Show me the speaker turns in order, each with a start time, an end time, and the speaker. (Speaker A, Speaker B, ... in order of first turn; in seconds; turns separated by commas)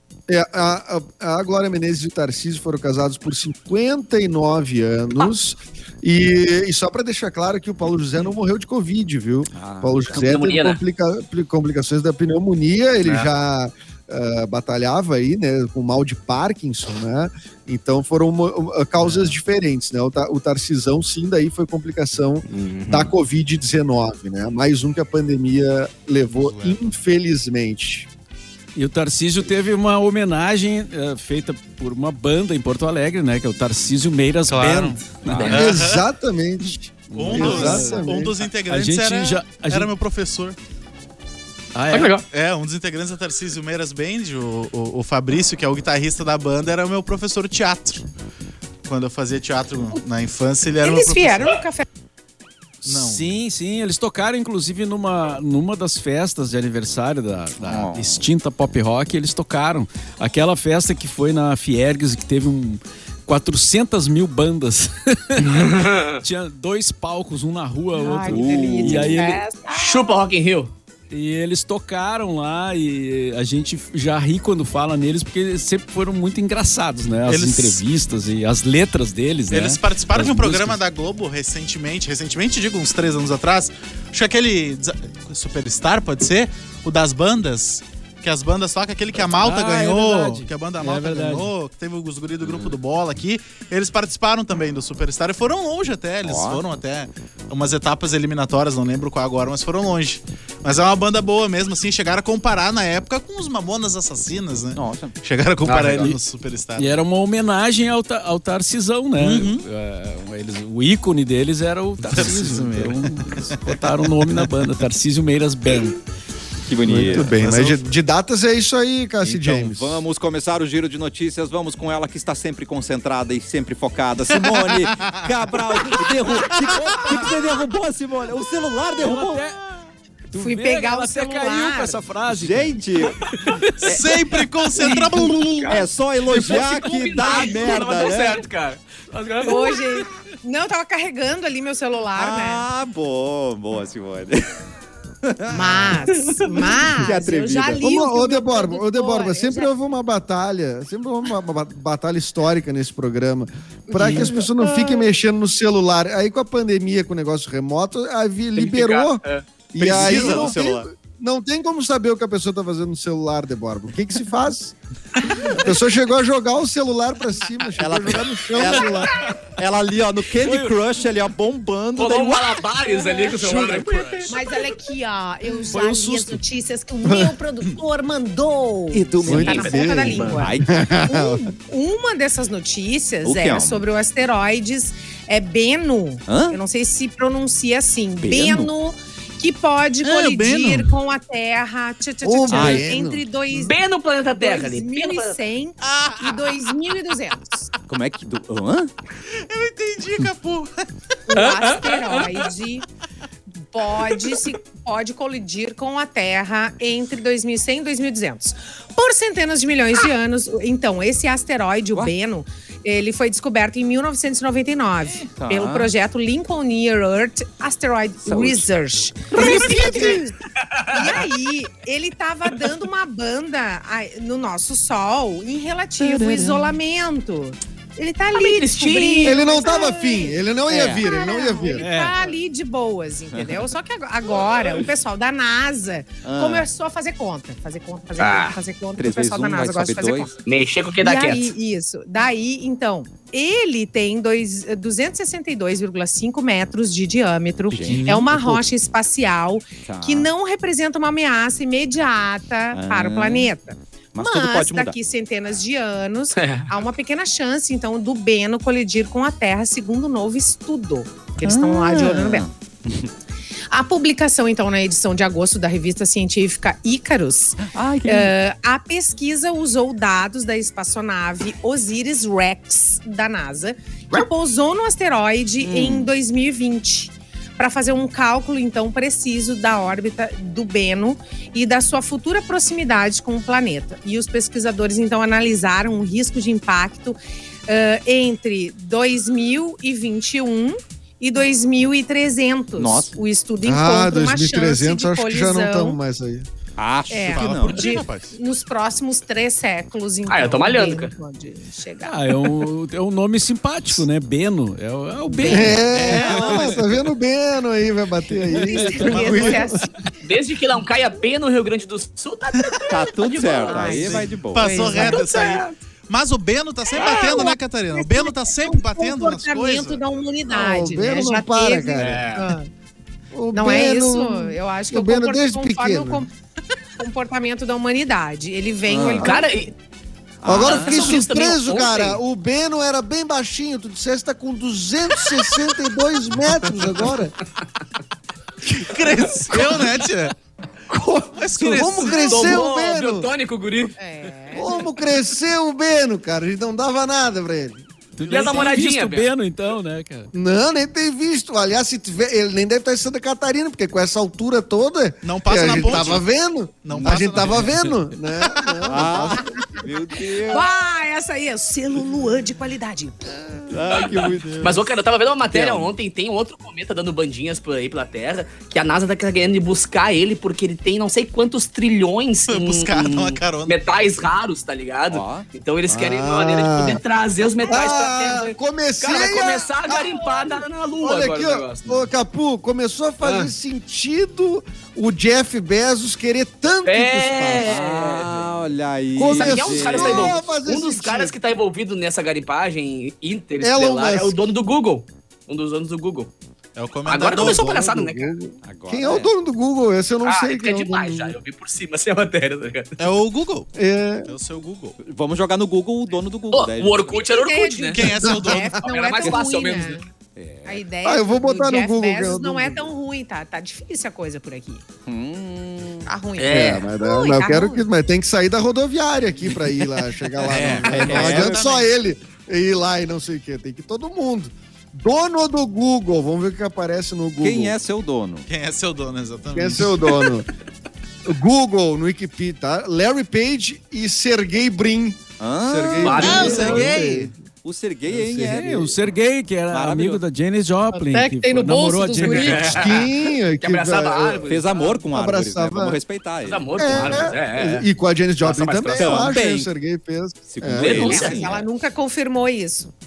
Speaker A: 0.3-28.1, Speaker B: 9.5-10.0, Speaker C: 10.1-10.8, Speaker C: 22.5-23.1, Speaker D: 26.3-26.9, Speaker E: 28.8-35.6, Speaker D: 34.5-36.1, Speaker C: 35.3-35.8, Speaker A: 35.5-38.4, Speaker E: 37.1-38.1, Speaker D: 37.1-40.5, Speaker E: 38.6-39.9, Speaker E: 41.7-42.2, Speaker C: 41.9-42.2, Speaker D: 42.3-48.0, Speaker D: 48.8-51.6, Speaker F: 50.8-51.8, Speaker E: 52.8-69.4, Speaker D: 52.8-53.4, Speaker B: 57.6-58.2, Speaker C: 65.4-66.2, Speaker F: 67.9-70.1, Speaker B: 68.2-69.2, Speaker C: 69.7-70.7, Speaker E: 71.1-80.8, Speaker D: 77.2-77.8, Speaker D: 79.5-107.0, Speaker E: 89.2-91.5, Speaker B: 92.4-92.7, Speaker B: 96.2-96.6, Speaker B: 104.7-105.1, Speaker C: 105.7-106.1, Speaker E: 106.8-116.0, Speaker D: 109.2-109.6, Speaker D: 112.0-114.3, Speaker B: 116.7-117.3, Speaker A: 116.8-120.0, Speaker D: 117.0-117.8, Speaker B: 119.2-129.5, Speaker D: 124.3-125.3, Speaker D: 125.9-127.4, Speaker E: 129.0-129.6, Speaker E: 130.3-132.8, Speaker F: 130.3-132.0, Speaker B: 132.3-133.3, Speaker C: 133.3-133.6, Speaker D: 133.8-136.3, Speaker B: 133.8-134.2, Speaker F: 134.8-135.2, Speaker B: 135.7-138.4, Speaker C: 136.3-139.9, Speaker F: 137.3-137.8, Speaker F: 139.4-142.7, Speaker B: 142.1-144.4, Speaker B: 145.2-146.0, Speaker F: 145.5-149.7, Speaker C: 146.1-146.8, Speaker B: 146.8-147.8, Speaker A: 147.8-164.7, Speaker C: 158.6-159.4, Speaker B: 159.8-160.9, Speaker C: 160.1-160.5, Speaker A: 165.6-169.1, Speaker B: 167.8-172.7, Speaker E: 170.4-170.8, Speaker C: 171.9-174.4, Speaker F: 172.8-173.7, Speaker D: 173.8-174.3, Speaker F: 174.3-193.8, Speaker E: 175.7-176.4, Speaker A: 177.0-177.3, Speaker B: 178.9-180.8, Speaker A: 179.2-181.4, Speaker C: 179.3-180.5, Speaker B: 183.2-183.8, Speaker B: 186.2-186.6, Speaker B: 188.2-188.7, Speaker D: 190.0-190.9, Speaker A: 192.2-193.2, Speaker B: 192.5-192.9, Speaker C: 193.5-195.4, Speaker F: 194.3-197.7, Speaker D: 195.8-196.7, Speaker B: 197.9-198.9, Speaker D: 199.3-200.9, Speaker F: 201.3-202.8, Speaker C: 201.3-202.5, Speaker F: 203.6-220.3, Speaker B: 215.1-215.9, Speaker B: 218.2-218.7, Speaker C: 219.3-221.3, Speaker B: 219.4-220.2, Speaker F: 220.9-240.3, Speaker B: 226.1-226.7, Speaker C: 228.3-229.4, Speaker A: 229.2-231.9, Speaker B: 230.7-231.0, Speaker E: 231.8-232.2, Speaker B: 233.3-233.7, Speaker B: 236.2-236.7, Speaker C: 238.2-238.6, Speaker B: 239.0-240.3, Speaker C: 240.4-241.5, Speaker F: 241.0-262.4, Speaker B: 247.7-248.6, Speaker D: 247.9-248.2, Speaker A: 248.3-248.6, Speaker B: 249.8-250.3, Speaker B: 252.7-253.5, Speaker B: 254.1-254.9, Speaker C: 256.3-256.7, Speaker B: 261.4-263.1, Speaker F: 263.7-296.0, Speaker B: 267.6-268.3, Speaker B: 275.6-276.1, Speaker B: 292.8-293.1, Speaker A: 293.6-296.5, Speaker B: 296.8-297.8, Speaker F: 297.1-302.6, Speaker D: 297.2-298.4, Speaker C: 300.3-301.1, Speaker E: 302.0-306.4, Speaker F: 305.3-305.8, Speaker A: 305.5-309.9, Speaker D: 305.9-306.8, Speaker B: 306.1-306.7, Speaker F: 308.5-309.8, Speaker E: 308.5-309.6, Speaker C: 310.2-314.2, Speaker B: 312.9-315.1, Speaker F: 313.4-315.6, Speaker D: 313.9-320.0, Speaker C: 315.0-315.7, Speaker F: 316.9-322.7, Speaker A: 320.5-322.2, Speaker C: 322.0-322.5, Speaker A: 323.3-326.3, Speaker F: 323.5-326.3, Speaker F: 327.0-329.6, Speaker B: 328.9-329.3, Speaker C: 329.2-329.7, Speaker B: 330.4-331.1, Speaker A: 330.4-337.3, Speaker C: 330.6-332.2, Speaker D: 338.6-340.3, Speaker A: 338.8-339.7, Speaker A: 340.9-343.3, Speaker D: 341.3-342.6, Speaker C: 342.0-344.0, Speaker F: 344.0-344.8, Speaker A: 344.5-347.9, Speaker E: 348.2-350.3, Speaker C: 348.3-349.3, Speaker A: 350.3-359.7, Speaker D: 355.2-356.2, Speaker D: 356.8-358.1, Speaker B: 356.9-357.6, Speaker B: 358.8-360.7, Speaker F: 359.4-364.4, Speaker B: 363.7-364.8, Speaker C: 364.6-382.1, Speaker B: 365.5-365.9, Speaker D: 372.5-373.8, Speaker B: 375.1-375.5, Speaker A: 375.9-377.0, Speaker A: 377.6-387.8, Speaker C: 383.2-383.5, Speaker C: 386.8-388.6, Speaker B: 387.6-390.4, Speaker A: 389.1-391.4, Speaker C: 389.2-396.3, Speaker A: 393.6-394.4, Speaker D: 396.8-397.8, Speaker C: 397.1-398.3, Speaker A: 397.3-401.4, Speaker B: 398.6-399.3, Speaker C: 400.2-403.0, Speaker D: 403.0-403.7, Speaker A: 403.7-404.3, Speaker D: 404.2-405.0, Speaker B: 405.0-407.2, Speaker C: 406.5-408.1, Speaker F: 407.2-410.1, Speaker D: 407.9-408.8, Speaker A: 408.2-408.6, Speaker C: 408.8-410.0, Speaker B: 409.2-409.5, Speaker B: 410.4-410.8, Speaker F: 410.7-414.9, Speaker A: 411.0-412.9, Speaker B: 415.1-416.1, Speaker F: 416.1-417.8, Speaker C: 416.4-416.9, Speaker A: 416.4-427.8, Speaker D: 420.4-421.9, Speaker B: 420.4-421.7, Speaker B: 427.4-428.5, Speaker D: 428.5-430.4, Speaker A: 429.5-430.5, Speaker A: 431.2-437.3, Speaker B: 435.4-437.0, Speaker C: 435.9-436.9, Speaker D: 436.2-437.3, Speaker B: 437.6-439.0, Speaker A: 438.1-438.7, Speaker E: 438.5-442.8, Speaker B: 439.7-440.2, Speaker F: 440.9-443.0, Speaker C: 442.2-445.0, Speaker A: 442.7-444.5, Speaker B: 444.4-447.3, Speaker A: 445.1-446.0, Speaker C: 446.4-447.9, Speaker A: 446.8-451.3, Speaker C: 448.4-449.3, Speaker B: 448.9-449.7, Speaker B: 450.5-451.6, Speaker C: 450.8-451.5, Speaker F: 450.8-452.9